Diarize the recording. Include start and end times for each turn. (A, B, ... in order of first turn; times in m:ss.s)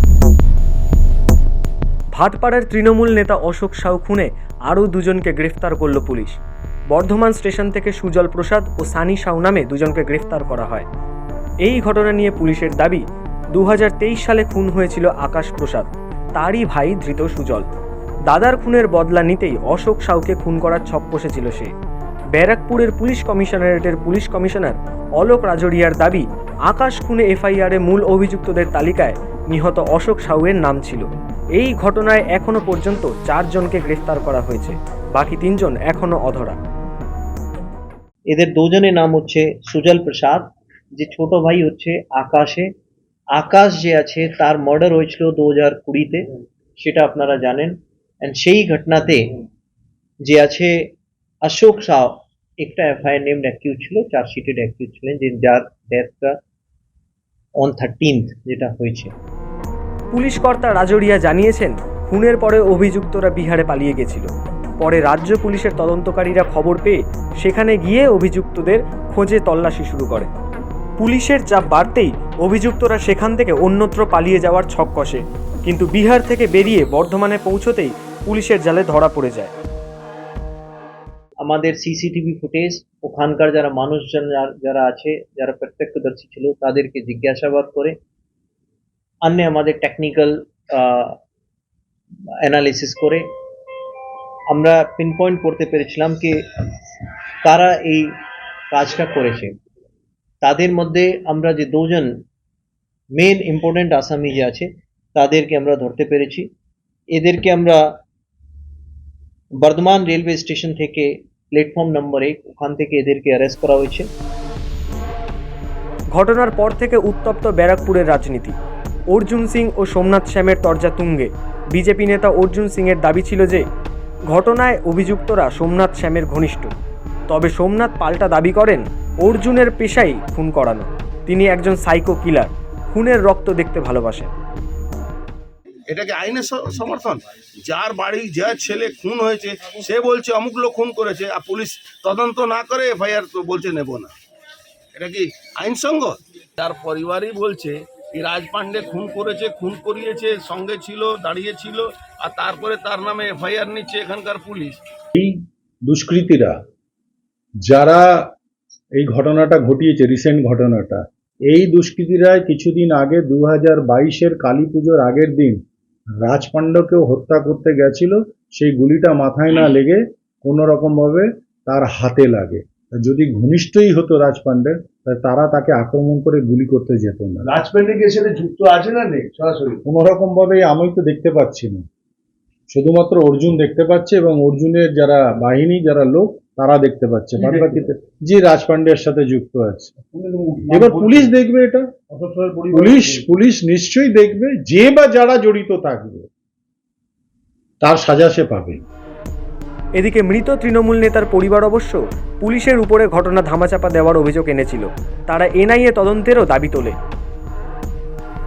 0:02.1-0:06.4 A
0:06.9-0:10.9 A
0:11.6-0:17.7 A
0:18.3-0:21.7 A
0:22.3-0:36.6 A
0:38.3-0:42.7 B
0:43.3-0:46.2 B
0:46.8-0:49.2 B
0:50.3-0:50.8 B
0:51.4-0:56.4 B
0:57.6-0:59.1 B
1:00.1-1:10.3 A
1:11.0-1:19.5 A
1:21.4-1:28.0 B
1:29.2-1:31.2 B
1:32.4-1:33.2 B
1:34.5-1:36.7 B
1:37.4-1:38.1 B
1:38.7-1:39.6 B
1:40.4-1:42.1 B
1:43.2-1:46.5 B
1:47.1-1:47.8 B
1:49.6-1:54.1 B
1:56.1-1:58.6 A
1:59.1-2:03.6 A
2:04.3-2:06.7 A
2:07.3-2:14.3 A
2:15.9-2:24.1 C
2:25.0-2:34.8 C
2:35.2-2:36.6 D
2:37.6-2:38.3 D
2:39.0-2:45.6 D
2:46.2-2:57.5 D
2:57.4-2:59.8 E
2:59.8-3:01.8 D
3:02.7-3:10.0 D
3:07.4-3:07.9 E
3:10.0-3:11.3 E
3:10.7-3:11.9 D
3:12.1-3:13.2 E
3:12.7-3:16.3 D
3:17.8-3:18.8 D
3:20.0-3:27.0 A